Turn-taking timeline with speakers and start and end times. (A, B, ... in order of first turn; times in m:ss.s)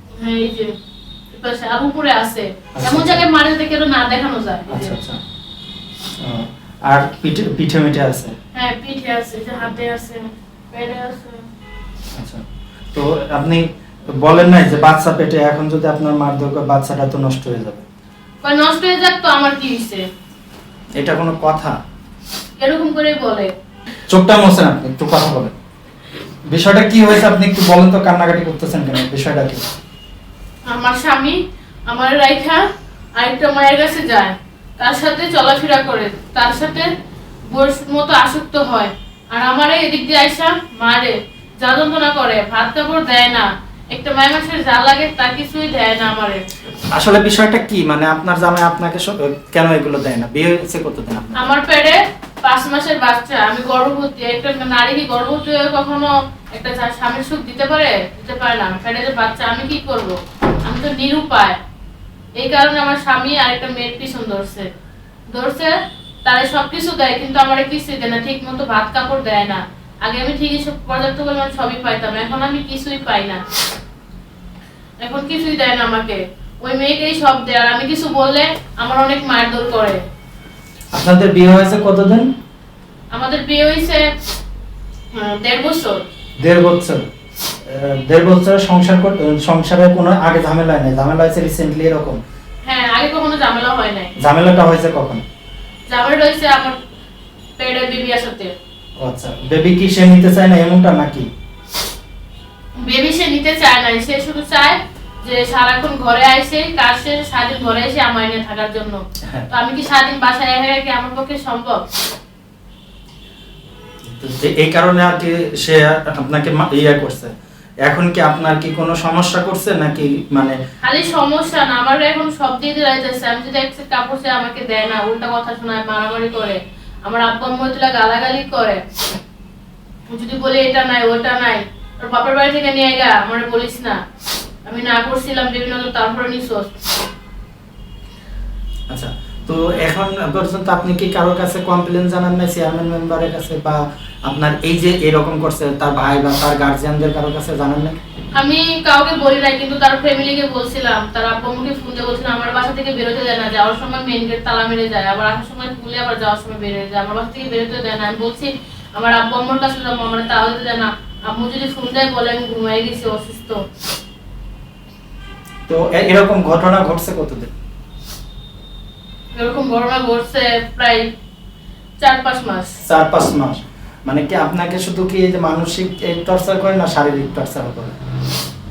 0:00.2-0:00.7 A
0:01.3-0:05.0 A
0:02.8-0:03.2 B
0:04.7-0:05.2 B
0:06.2-0:08.3 B
0:08.5-0:11.4 A
0:12.1-0:17.8 B
0:18.4-0:20.0 A
0:21.0-0:21.8 B
0:22.6-0:23.5 A
0:24.1-0:25.5 B
0:26.5-0:29.7 B
0:30.7-0:32.6 A
0:33.2-0:36.9 A
0:37.5-0:46.4 A
0:46.9-0:51.5 B
0:51.4-1:01.6 A
1:02.4-1:04.7 A
1:05.3-1:05.8 A
1:06.2-1:13.4 A
1:15.0-1:20.0 A
1:20.9-1:22.3 B
1:23.1-1:24.1 A
1:25.1-1:26.0 A
1:26.4-1:27.0 B
1:27.6-1:32.2 B
1:32.7-1:34.1 A
1:34.2-1:35.2 B
1:35.9-1:36.8 A
1:37.6-1:38.5 A
1:39.0-1:41.3 B
1:42.8-1:51.8 A
1:54.1-1:57.3 B
1:57.9-2:00.6 B
2:00.8-2:08.8 A
2:10.1-2:14.0 A
2:14.7-2:17.0 A
2:18.9-2:28.0 B
2:28.4-2:43.6 A
2:45.7-2:47.5 B
2:49.4-2:51.1 A
2:52.0-2:52.8 A
2:52.8-2:58.0 B